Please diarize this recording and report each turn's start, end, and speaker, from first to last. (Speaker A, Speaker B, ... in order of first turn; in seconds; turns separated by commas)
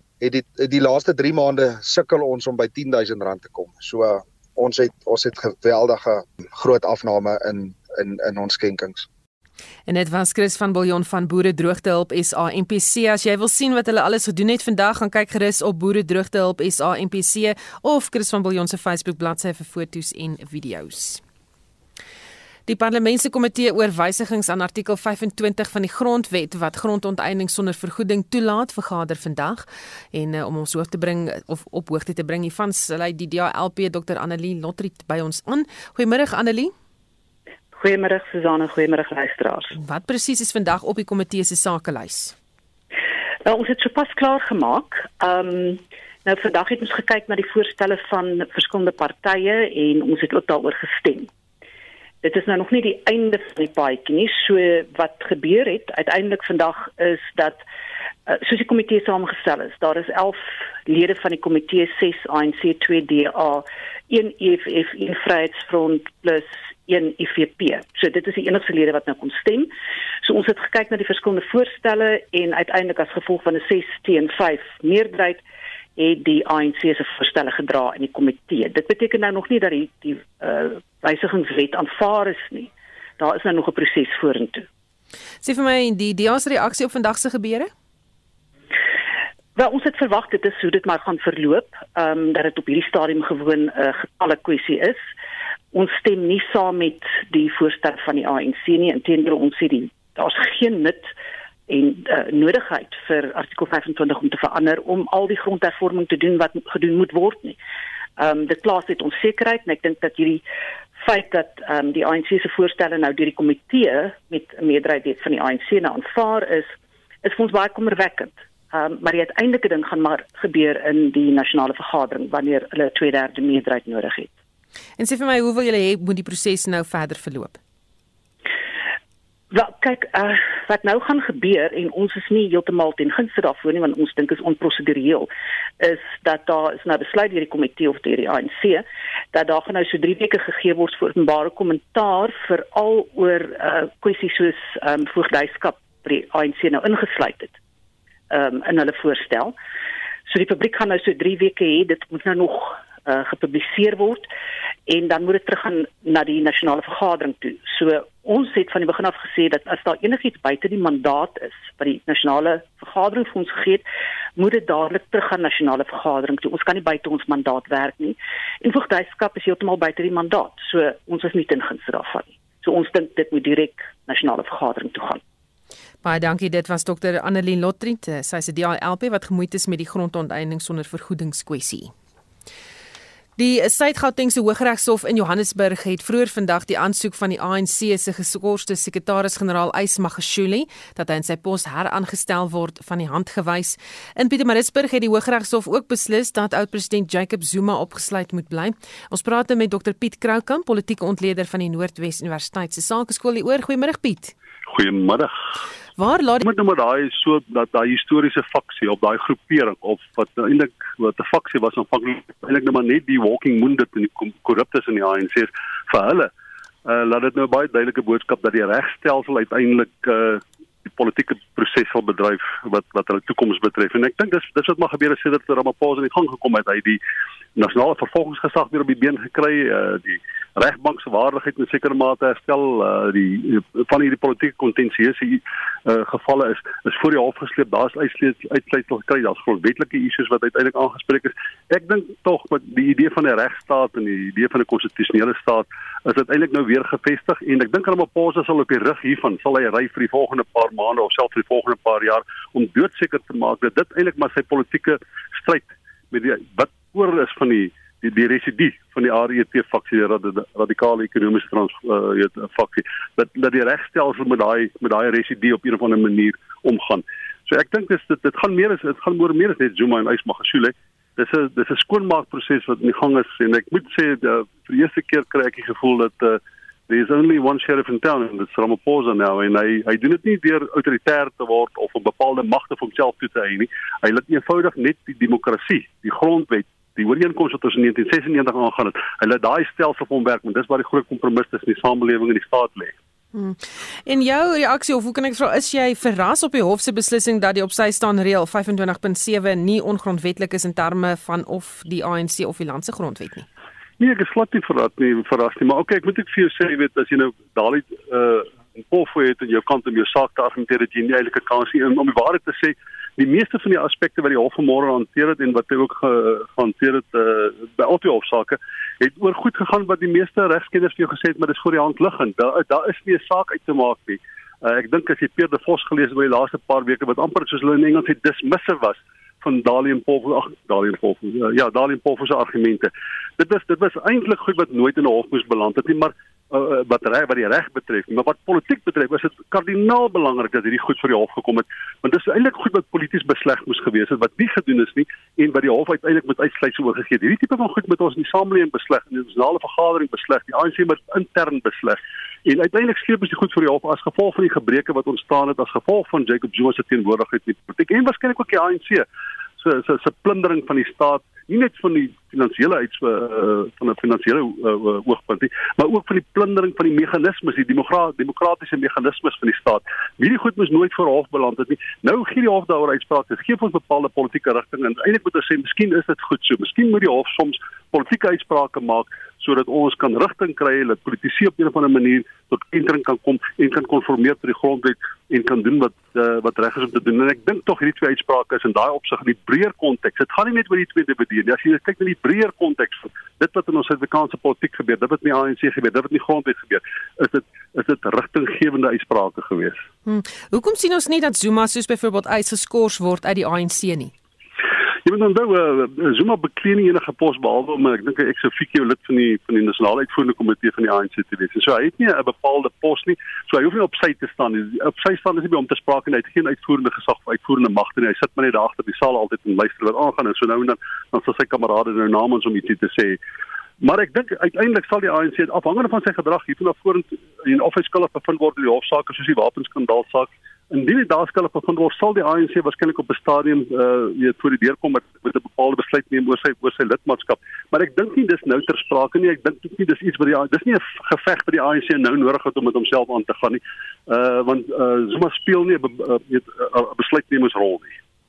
Speaker A: 0.2-9.1, Speaker B: 9.9-21.2, Speaker B: 22.7-36.7, Speaker C: 37.7-39.8, Speaker B: 39.8-42.4, Speaker C: 43.5-51.3, Speaker C: 52.2-57.6, Speaker C: 58.3-69.7, Speaker C: 70.2-75.4, Speaker C: 76.0-84.7, Speaker B: 85.4-87.7, Speaker C: 89.6-95.0, Speaker C: 95.7-101.1, Speaker C: 101.7-107.6, Speaker C: 108.2-110.4, Speaker C: 111.0-124.3, Speaker B: 125.0-127.6, Speaker C: 129.5-135.3, Speaker C: 135.8-147.6, Speaker C: 148.3-149.6, Speaker C: 150.3-154.3, Speaker C: 154.9-163.8, Speaker C: 164.4-175.2, Speaker B: 176.0-181.9, Speaker B: 183.4-204.3, Speaker D: 204.7-205.3, Speaker B: 206.0-206.4, Speaker D: 206.4-216.3, Speaker D: 216.9-227.0, Speaker D: 227.6-292.9, Speaker B: 293.3-303.5, Speaker D: 304.0-359.1, Speaker D: 359.6-399.8, Speaker B: 400.1-404.1, Speaker D: 405.1-423.2, Speaker D: 423.8-447.9